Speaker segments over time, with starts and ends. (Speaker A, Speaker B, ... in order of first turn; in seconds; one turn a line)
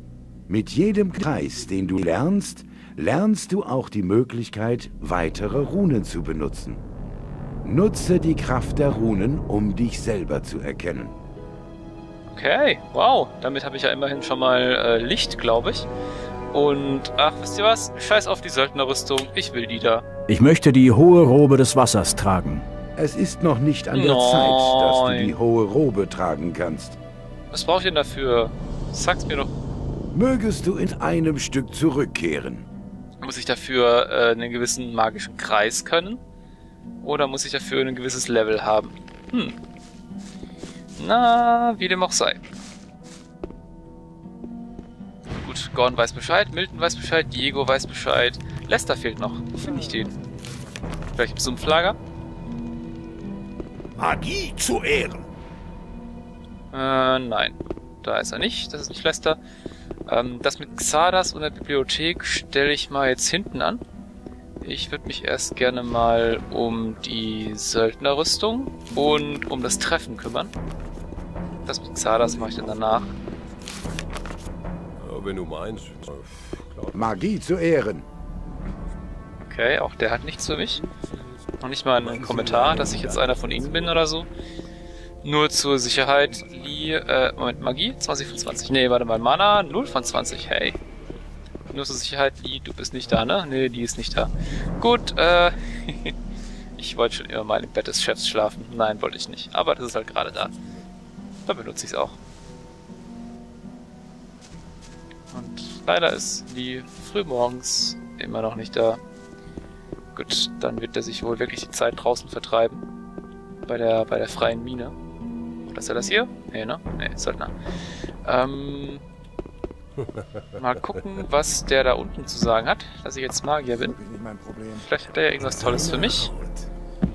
Speaker A: 0.5-6.8
Speaker A: 7.6-11.2
Speaker B: 12.3-15.9
Speaker B: 16.5-20.0
Speaker C: 20.3-22.6
Speaker A: 23.0-27.0
Speaker B: 23.9-25.4
Speaker B: 27.5-29.5
Speaker A: 30.1-32.7
Speaker B: 33.2-36.2
Speaker B: 37.0-39.5
Speaker B: 41.0-42.4
Speaker B: 45.4-50.1
Speaker B: 51.2-52.0
Speaker B: 56.7-59.4
Speaker B: 60.1-63.8
Speaker B: 64.6-70.5
Speaker B: 71.7-73.1
Speaker D: 75.0-77.2
Speaker A: 76.9-78.1
Speaker B: 79.5-80.8
Speaker B: 81.6-84.3
Speaker D: 82.0-84.0
Speaker B: 85.2-90.8
Speaker B: 91.7-96.1
Speaker B: 96.8-100.5
Speaker B: 101.5-102.2
Speaker B: 105.3-109.0
Speaker B: 110.2-112.8
Speaker B: 113.7-115.0
Speaker B: 115.7-117.5
Speaker B: 118.2-119.0
Speaker D: 120.0-120.4
Speaker B: 120.6-124.0
Speaker B: 124.7-126.3
Speaker D: 125.4-126.7